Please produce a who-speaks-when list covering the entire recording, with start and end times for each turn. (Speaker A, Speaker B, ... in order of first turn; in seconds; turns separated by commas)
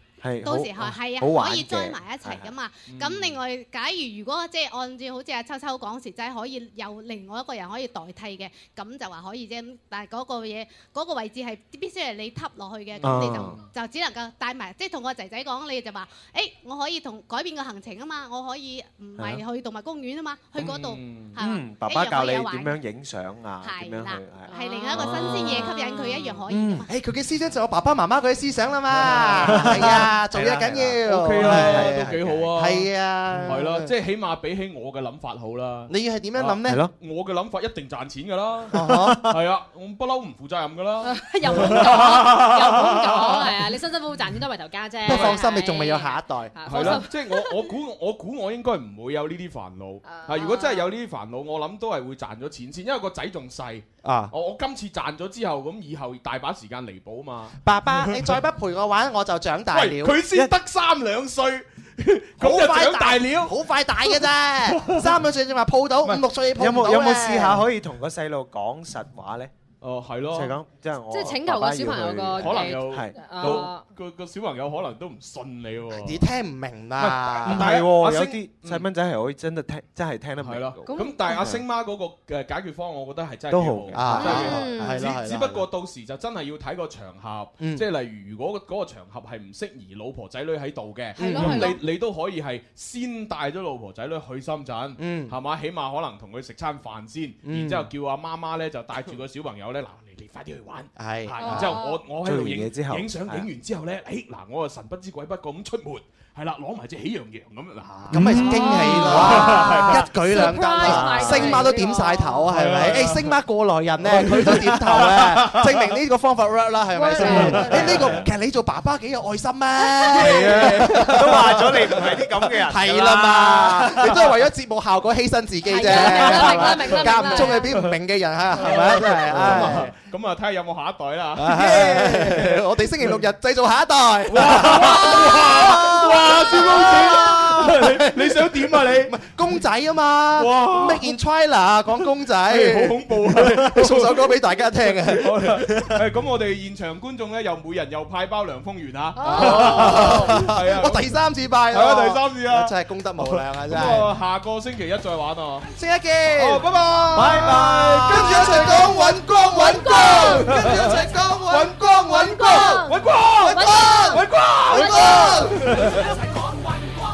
Speaker A: 0.2-2.6, Speaker B: 0.5-22.8, Speaker C: 2.9-3.4, Speaker A: 13.0-13.6, Speaker A: 20.6-25.7, Speaker C: 20.8-21.4, Speaker B: 23.6-26.9, Speaker D: 24.5-25.0, Speaker D: 25.6-26.4, Speaker A: 26.5-26.9, Speaker E: 26.9-33.9, Speaker C: 28.9-32.9, Speaker A: 29.4-32.6, Speaker A: 33.3-33.6, Speaker C: 33.5-43.5, Speaker E: 35.9-36.8, Speaker A: 36.7-36.9, Speaker E: 38.7-39.2, Speaker A: 38.8-39.2, Speaker D: 41.0-47.7, Speaker E: 45.0-47.0, Speaker C: 46.7-58.3, Speaker D: 50.0-50.9, Speaker E: 54.0-54.3, Speaker E: 57.6-60.2, Speaker C: 59.7-64.2, Speaker E: 62.4-67.7, Speaker C: 64.8-65.1, Speaker A: 66.6-69.5, Speaker C: 69.8-70.6, Speaker A: 70.3-73.6, Speaker D: 71.1-73.8, Speaker C: 72.3-76.2, Speaker E: 75.9-77.8, Speaker C: 77.0-78.9, Speaker A: 77.5-81.7, Speaker C: 80.4-111.7, Speaker D: 80.9-81.4, Speaker A: 83.5-84.6, Speaker E: 83.9-85.7, Speaker D: 84.2-84.9, Speaker E: 87.6-87.9, Speaker E: 91.2-91.7, Speaker D: 91.2-91.8, Speaker E: 95.0-95.4, Speaker E: 97.4-97.9, Speaker E: 101.0-101.7, Speaker D: 101.4-102.0, Speaker A: 102.2-103.5, Speaker E: 108.1-122.0, Speaker D: 108.4-112.5, Speaker C: 112.5-113.3, Speaker C: 114.0-115.9, Speaker D: 117.0-118.0, Speaker C: 117.2-118.2, Speaker C: 120.0-122.2, Speaker A: 120.2-123.9, Speaker E: 122.6-129.9, Speaker C: 123.7-124.3, Speaker D: 125.7-127.7, Speaker C: 125.8-127.9, Speaker C: 128.6-132.7, Speaker A: 129.4-129.7, Speaker E: 131.4-146.0, Speaker C: 134.3-139.2, Speaker C: 140.4-141.1, Speaker C: 142.5-144.4, Speaker C: 145.1-151.0, Speaker D: 149.2-150.3, Speaker E: 149.2-154.1, Speaker C: 151.7-155.7, Speaker E: 155.8-165.9, Speaker C: 156.3-159.2, Speaker D: 158.3-160.8, Speaker C: 159.8-166.1, Speaker D: 162.3-165.6